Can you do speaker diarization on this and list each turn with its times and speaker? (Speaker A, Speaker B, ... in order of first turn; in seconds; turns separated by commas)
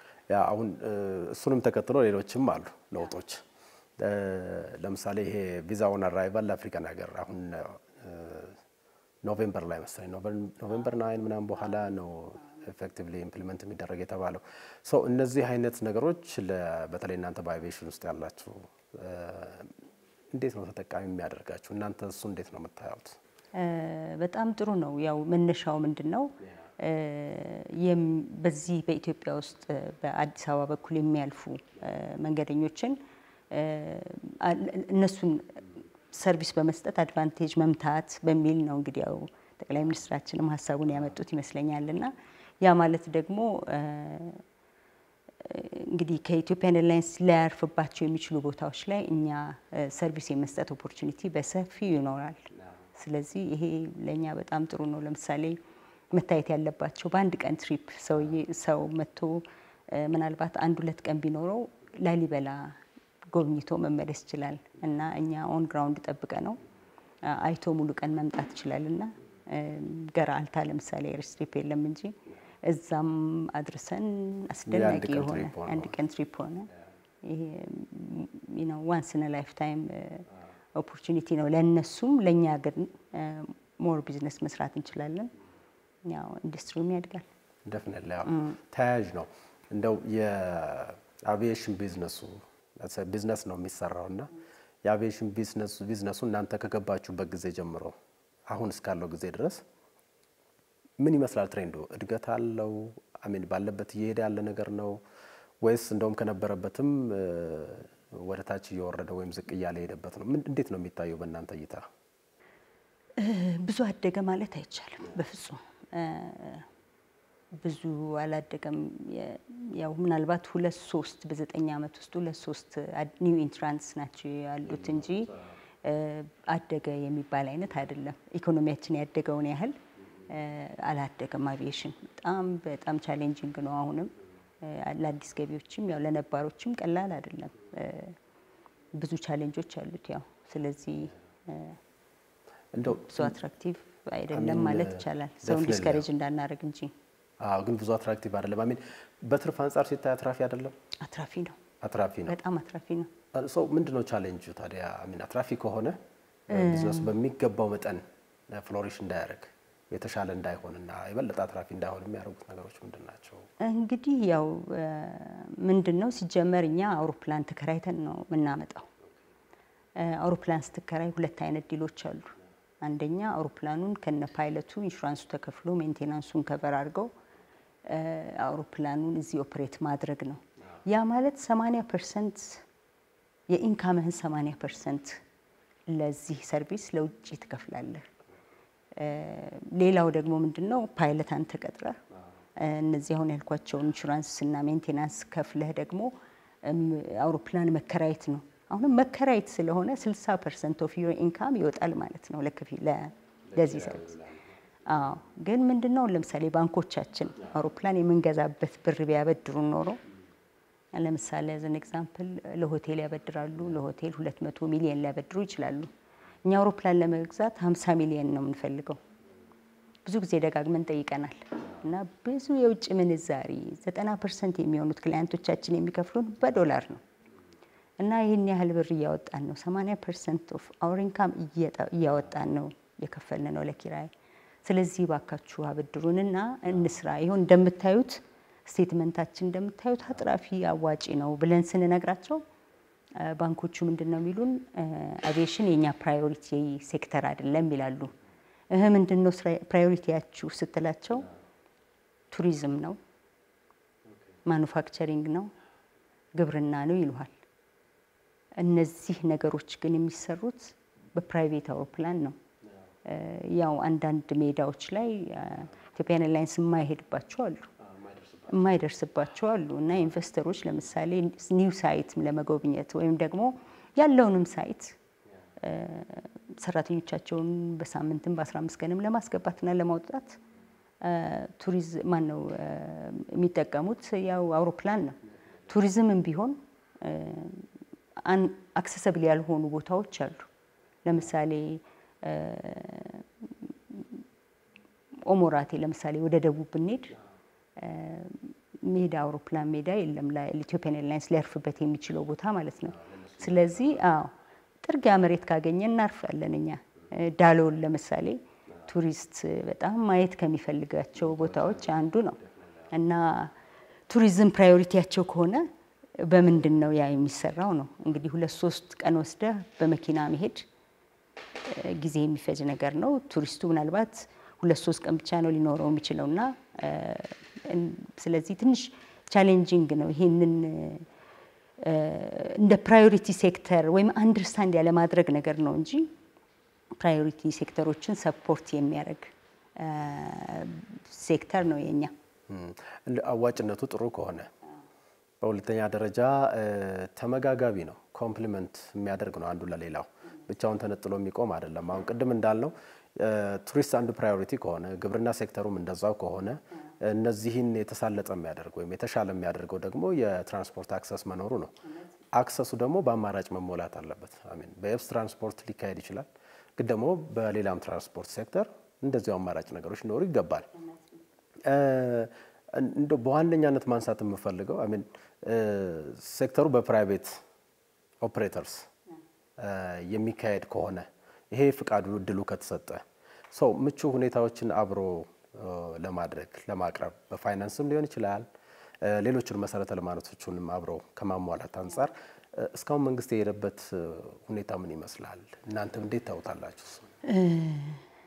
Speaker A: 0.3-3.4, Speaker A: 4.0-8.6, Speaker A: 9.2-19.8, Speaker A: 20.3-23.2, Speaker B: 23.5-33.0, Speaker B: 33.5-44.4, Speaker B: 45.4-55.6, Speaker B: 56.1-62.8, Speaker B: 63.3-66.6, Speaker B: 67.2-76.7, Speaker A: 74.7-76.0, Speaker B: 77.2-85.3, Speaker B: 86.0-87.2, Speaker A: 87.6-94.3, Speaker A: 94.8-97.9, Speaker A: 98.5-99.6, Speaker A: 101.0-105.0, Speaker A: 105.6-111.8, Speaker B: 113.2-116.7, Speaker B: 117.6-138.2, Speaker B: 138.9-141.8, Speaker A: 142.7-143.3, Speaker B: 142.9-146.9, Speaker A: 144.3-146.1, Speaker A: 147.4-150.7, Speaker B: 151.0-151.6, Speaker A: 151.8-152.4, Speaker B: 152.3-153.1, Speaker A: 153.3-156.0, Speaker B: 156.5-157.1, Speaker A: 156.5-163.4, Speaker B: 163.6-168.9, Speaker B: 170.0-177.1, Speaker B: 177.9-182.6, Speaker B: 183.5-185.2, Speaker B: 185.9-188.1, Speaker B: 188.9-192.0, Speaker B: 192.6-196.1, Speaker B: 196.6-204.2, Speaker A: 203.5-204.4, Speaker B: 204.8-210.0, Speaker B: 210.9-215.9, Speaker B: 216.4-219.0, Speaker B: 220.0-227.0, Speaker B: 228.0-234.1, Speaker B: 234.6-242.4, Speaker B: 243.2-248.1, Speaker B: 248.7-251.3, Speaker B: 252.3-253.0, Speaker B: 254.4-255.5, Speaker B: 256.3-257.3, Speaker B: 258.6-262.4, Speaker B: 263.0-267.7, Speaker A: 267.9-268.8, Speaker B: 268.5-275.0, Speaker B: 275.6-280.4, Speaker B: 281.0-287.7, Speaker B: 288.2-290.5, Speaker B: 291.0-294.1, Speaker B: 295.2-297.1, Speaker B: 297.8-312.4, Speaker A: 302.9-304.1, Speaker B: 312.9-313.5, Speaker B: 314.1-315.6, Speaker B: 316.2-320.6, Speaker B: 321.6-331.1, Speaker B: 331.8-336.1, Speaker B: 337.0-342.1, Speaker A: 342.5-344.5, Speaker A: 345.4-361.7, Speaker A: 362.3-370.7, Speaker A: 371.7-377.4, Speaker A: 378.2-378.9, Speaker A: 379.6-388.4, Speaker A: 389.0-397.1, Speaker B: 397.2-398.0